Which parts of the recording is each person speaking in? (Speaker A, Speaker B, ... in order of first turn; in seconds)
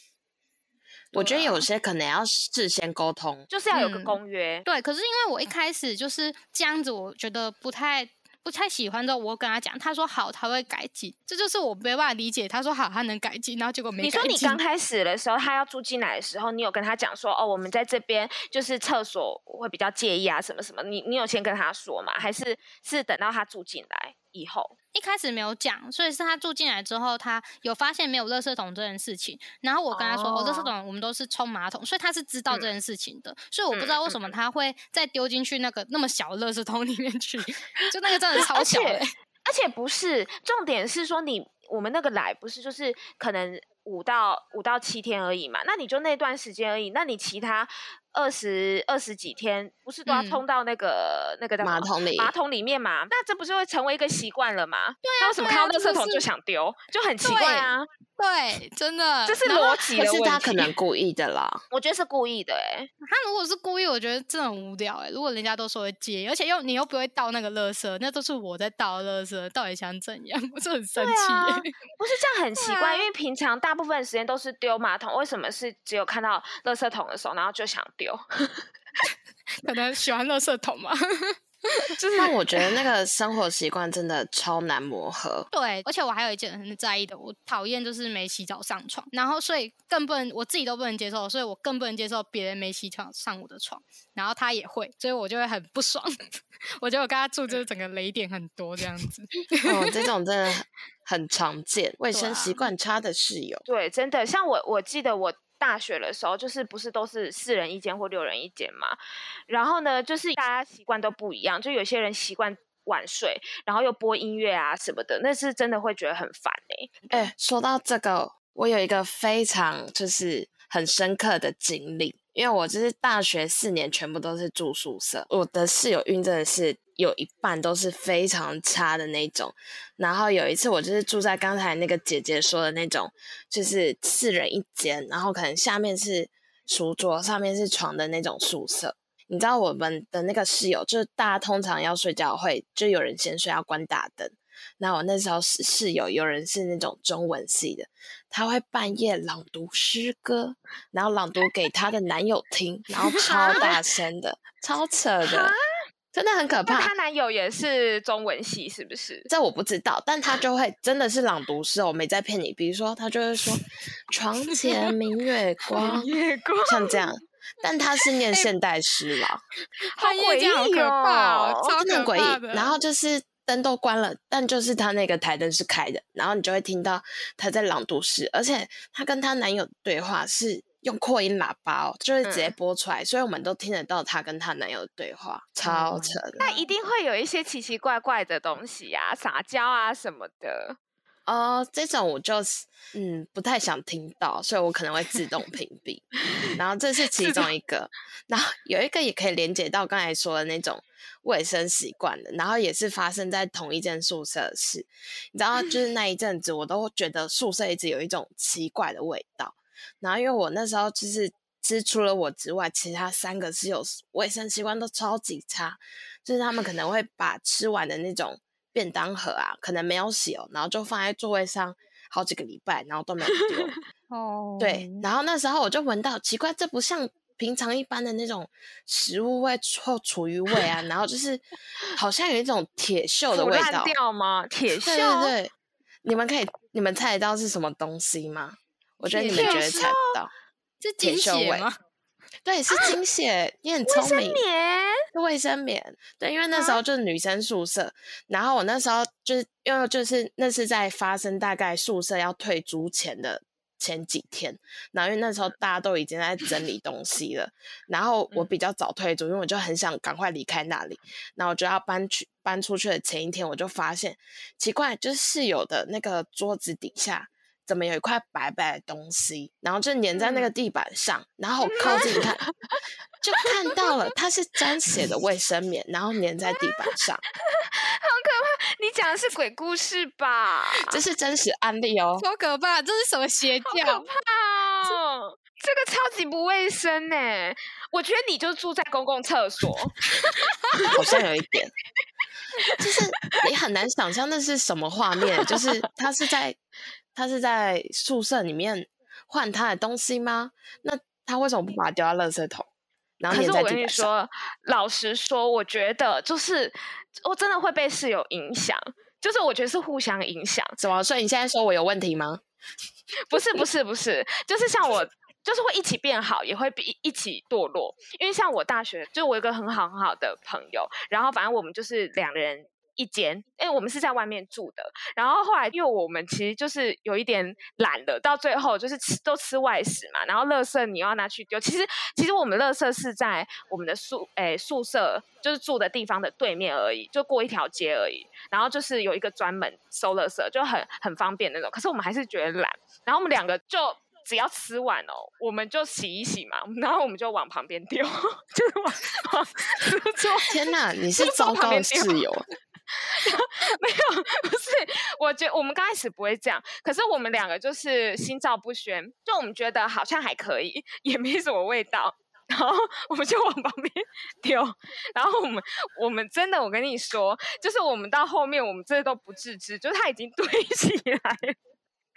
Speaker A: 1.1-3.5, 51.6-52.3, 60.0-61.6, 82.2-85.5, 99.7-103.7, 117.1-155.5, 156.1-156.9, 159.3-166.1, 166.7-169.4, 171.8-186.4, 191.3-223.8, 224.6-233.9, 234.8-235.5, 236.1-240.3, 241.0-241.7, 242.4-244.4, 245.1-272.4, 273.2-277.2, 280.9-282.2, 290.9-291.7, 292.8-296.6, 297.1-302.7, 303.2-304.1, 310.8-312.4, 350.5-352.4
Speaker B: 1.1-1.6, 3.7-14.6, 24.9-39.1, 50.1-50.4, 55.0-56.2, 57.2-59.8, 63.0-71.9, 72.6-73.1, 79.6-81.9, 85.5-99.9, 102.1-102.7, 164.6-164.9, 170.0-172.8, 185.6-186.6, 224.1-225.1, 239.1-239.8, 240.8-241.7, 282.2-284.1
Speaker C: 3.5-4.6, 14.0-24.7, 29.9-30.7, 33.7-34.3, 38.4-57.9, 59.2-60.7, 61.7-62.9, 70.9-78.7, 81.9-82.4, 103.7-109.0, 109.5-117.3, 153.1-153.8, 155.2-155.6, 156.7-159.3, 165.7-167.0, 169.9-171.7, 182.2-182.5, 186.4-190.8, 197.2-197.5, 223.4-223.8, 233.3-235.3, 239.3-240.2, 243.8-245.0, 246.5-246.8, 270.2-270.5, 271.6-272.8, 273.4-273.9, 277.5-281.0, 283.7-291.2, 303.3-310.8, 313.3-350.6, 351.2-352.3, 352.9-371.6